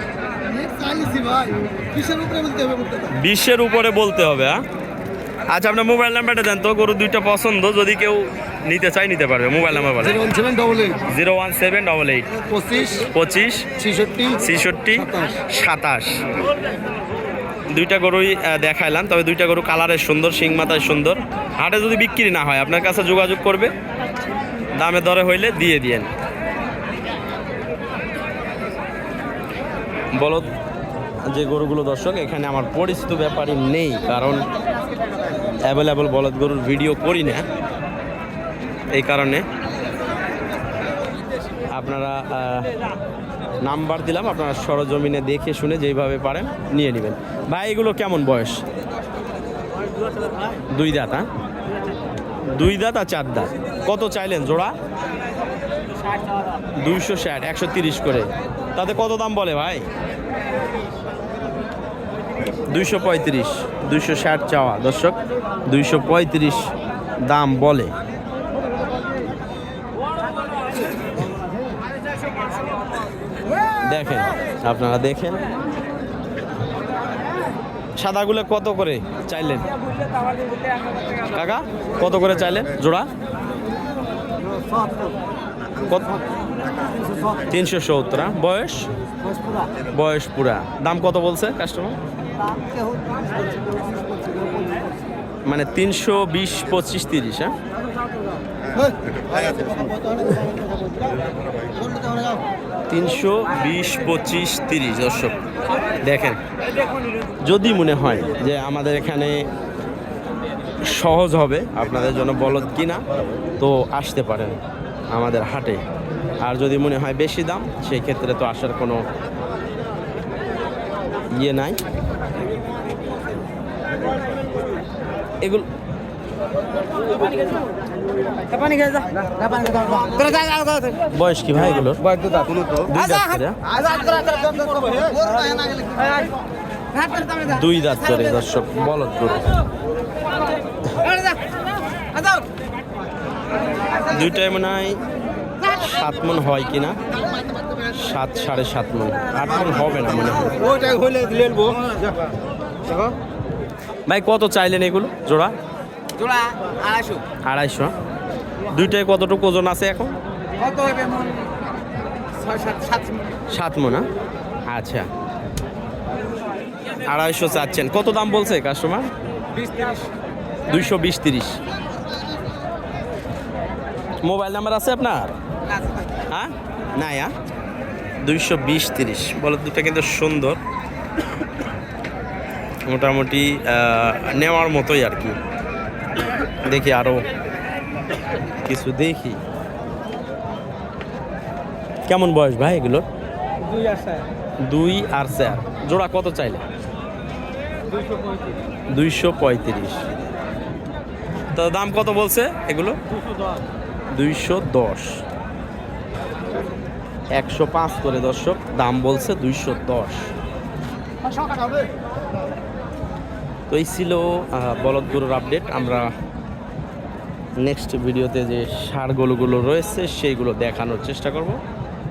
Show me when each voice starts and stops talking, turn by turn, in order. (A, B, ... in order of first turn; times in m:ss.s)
0:00.5-0:03.2 A
0:03.1-0:04.6 B
0:05.5-0:10.3 B
0:10.0-0:11.0 A
0:11.1-0:12.3 B
0:12.4-0:13.1 A
0:13.1-0:13.7 B
0:13.8-0:15.3 A
0:14.4-0:16.2 B
0:17.7-0:23.7 B
0:24.8-0:26.1 B
0:30.2-0:30.5 B
0:31.3-0:34.5 B
0:35.7-0:37.5 B
0:38.9-0:39.4 B
0:41.7-0:42.7 B
0:43.6-0:48.6 B
0:50.7-0:51.3 B
0:52.6-0:54.7 B
0:56.8-0:59.8 B
1:02.7-1:06.7 B
1:07.2-1:07.9 B
1:13.9-1:15.4 B
1:18.0-1:19.7 B
1:21.3-1:23.1 B
1:25.8-1:26.2 B
1:27.5-1:28.9 B
1:29.9-1:32.0 B
1:35.5-1:37.6 B
1:38.8-1:40.5 A
1:41.8-1:42.4 A
1:42.9-1:45.3 B
1:46.0-1:46.4 B
1:47.4-1:49.4 B
1:50.9-1:53.0 B
1:53.6-1:54.6 B
1:55.1-1:55.8 B
1:56.4-1:59.0 B
2:01.3-2:01.8 B
2:05.4-2:05.7 B
2:08.6-2:10.9 C
2:11.1-2:12.0 B
2:12.9-2:13.6 B
2:14.0-2:14.4 C
2:14.7-2:15.9 A
2:17.4-2:19.5 B
2:24.1-2:25.0 B
2:25.6-2:27.0 B
2:27.8-2:30.7 B
2:30.9-2:31.8 A
2:31.1-2:31.7 C
2:34.1-2:35.5 B
2:36.2-2:37.2 C
2:37.5-2:37.9 B
2:38.7-2:40.2 B
2:40.7-2:41.4 C
2:42.4-2:43.2 C
2:43.5-2:44.1 B
2:44.7-2:45.1 B
2:47.1-2:49.1 B
2:50.7-2:51.6 B
2:54.2-2:55.3 B
2:56.3-2:57.3 B
2:58.2-3:00.6 B
3:02.9-3:05.4 B
3:06.6-3:07.2 B
3:08.6-3:09.4 B
3:12.1-3:13.1 B
3:14.7-3:16.6 B
3:18.9-3:20.0 B
3:21.5-3:23.0 B
3:24.1-3:25.2 B
3:27.4-3:30.3 B
3:33.7-3:36.1 B
3:37.6-3:41.6 B